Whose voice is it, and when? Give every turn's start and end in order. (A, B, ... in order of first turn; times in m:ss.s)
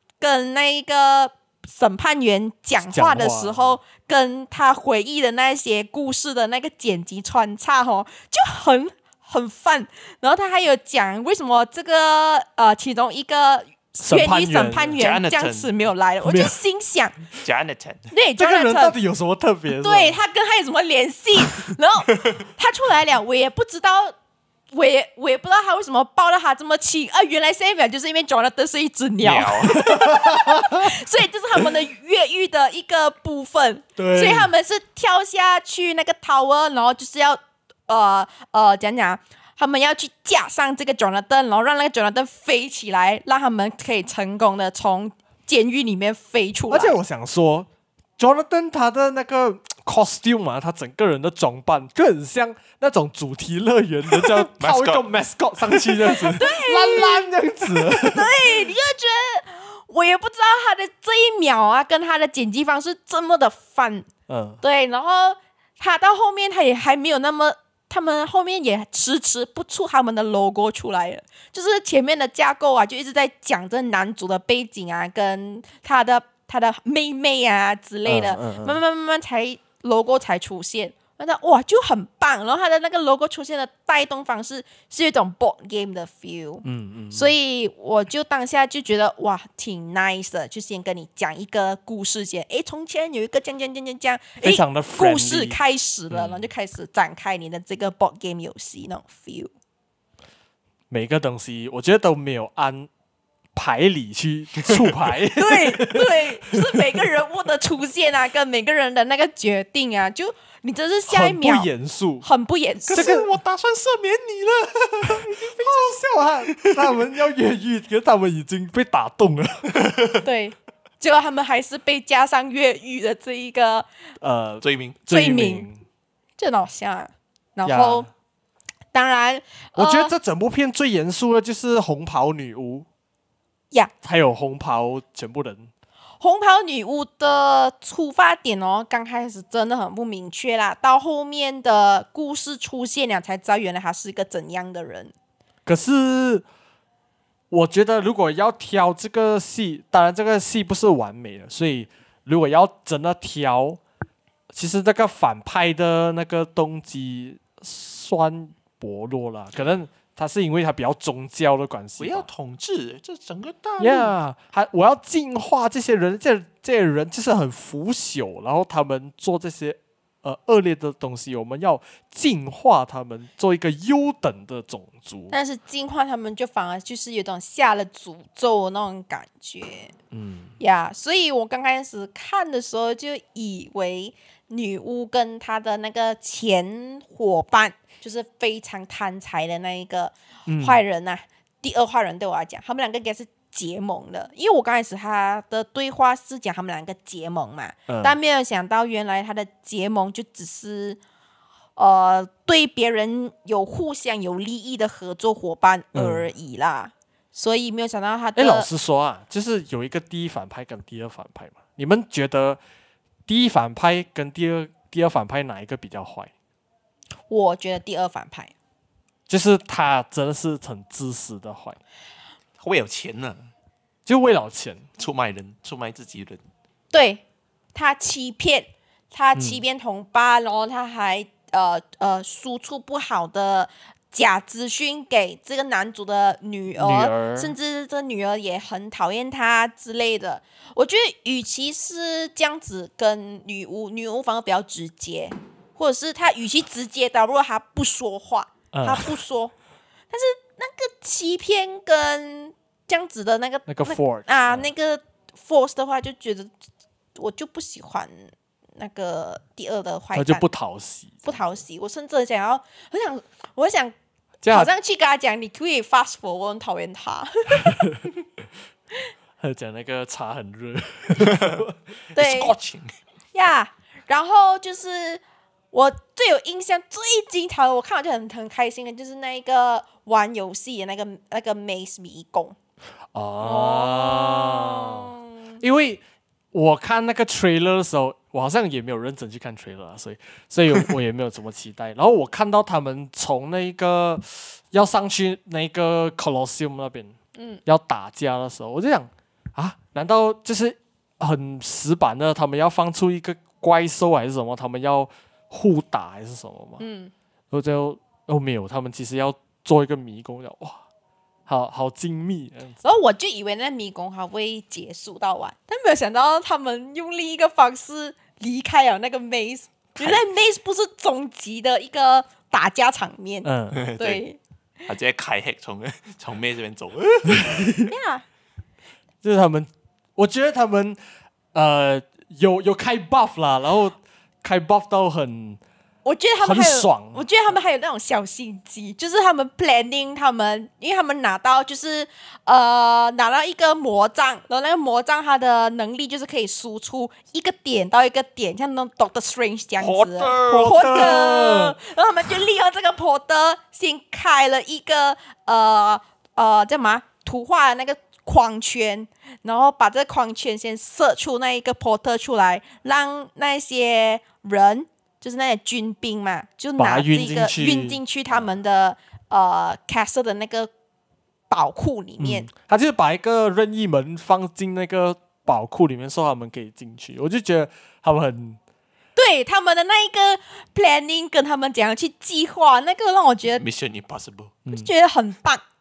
0:00.2-0:17.2 A
0:02.8-0:03.8 B
0:14.0-0:15.0 B
0:15.0-0:15.7 C
0:16.2-0:16.6 B
0:17.4-0:18.1 C
0:18.1-0:19.0 A
0:18.4-0:20.2 B
0:19.7-0:24.2 A
0:24.7-0:47.0 A
0:29.2-0:29.9 C
0:29.9-0:30.8 B
0:34.0-0:34.5 B
0:46.7-0:58.4 B
0:54.3-0:55.0 C
0:56.3-0:57.3 A
0:57.8-1:04.1 A
1:04.3-1:04.6 B
1:04.6-1:39.5 A
1:18.1-1:18.8 B
1:26.6-1:27.3 B
1:34.4-1:35.6 B
1:40.9-1:42.9 B
1:43.5-1:46.8 B
1:45.3-1:51.7 A
1:51.1-1:52.3 B
1:52.2-1:53.1 A
1:52.9-1:55.8 C
1:52.9-1:53.3 B
1:55.1-1:59.7 B
1:56.5-1:57.0 C
1:59.8-2:00.1 C
2:00.2-2:03.9 A
2:04.2-2:05.8 B
2:04.6-2:05.0 C
2:05.1-2:05.7 A
2:06.4-2:08.1 A
2:07.7-2:08.1 B
2:08.9-2:10.1 A
2:09.8-2:12.9 B
2:14.0-2:15.7 B
2:16.2-2:25.1 A
2:25.7-2:26.4 B
2:27.5-2:33.8 B
2:34.5-2:42.3 B
2:42.0-2:44.1 C
2:43.8-2:55.3 B
2:55.3-2:59.9 A
3:00.1-3:00.6 B
3:00.6-3:21.0 A
3:10.5-3:10.8 B
3:17.9-3:18.2 B
3:21.8-3:28.7 A
3:25.9-3:26.2 B
3:28.4-3:32.6 B
3:33.3-3:36.3 B
3:37.3-3:38.5 A
3:39.3-3:41.8 B
3:42.6-3:43.5 C
3:44.1-3:44.9 B
3:45.0-3:46.4 C
3:46.9-3:47.2 A
3:47.7-4:09.5 A
3:49.4-3:49.6 B
3:56.8-3:57.5 B
4:08.7-4:09.1 B
4:10.1-4:16.5 A
4:13.7-4:14.7 B
4:17.2-4:20.5 A
4:20.1-4:21.4 B
4:21.2-4:24.0 A
4:24.4-4:24.7 B
4:24.5-4:27.9 A
4:29.4-4:31.8 B
4:31.3-4:31.6 C
4:32.2-4:32.6 A
4:32.2-4:32.9 C
4:33.3-4:42.6 A
4:43.1-4:57.2 B
4:43.4-4:45.6 A
4:57.4-4:57.6 A
4:57.7-5:06.8 B
5:06.8-5:07.1 A
5:07.5-5:10.8 B
5:11.5-5:12.8 B
5:12.8-5:24.4 A
5:23.4-5:23.8 B
5:23.7-5:24.2 C
5:24.9-5:27.7 C
5:27.3-5:27.9 B
5:27.9-5:28.2 A
5:29.2-5:31.0 B
5:31.5-5:35.6 B
5:36.0-6:10.7 A
5:36.4-5:37.3 B
5:49.8-5:51.2 C
5:50.4-5:51.8 B
6:06.8-6:08.0 B
6:11.5-6:12.5 A
6:12.2-6:18.6 B
6:19.2-6:23.6 A
6:23.6-6:24.6 C
6:24.7-6:25.6 A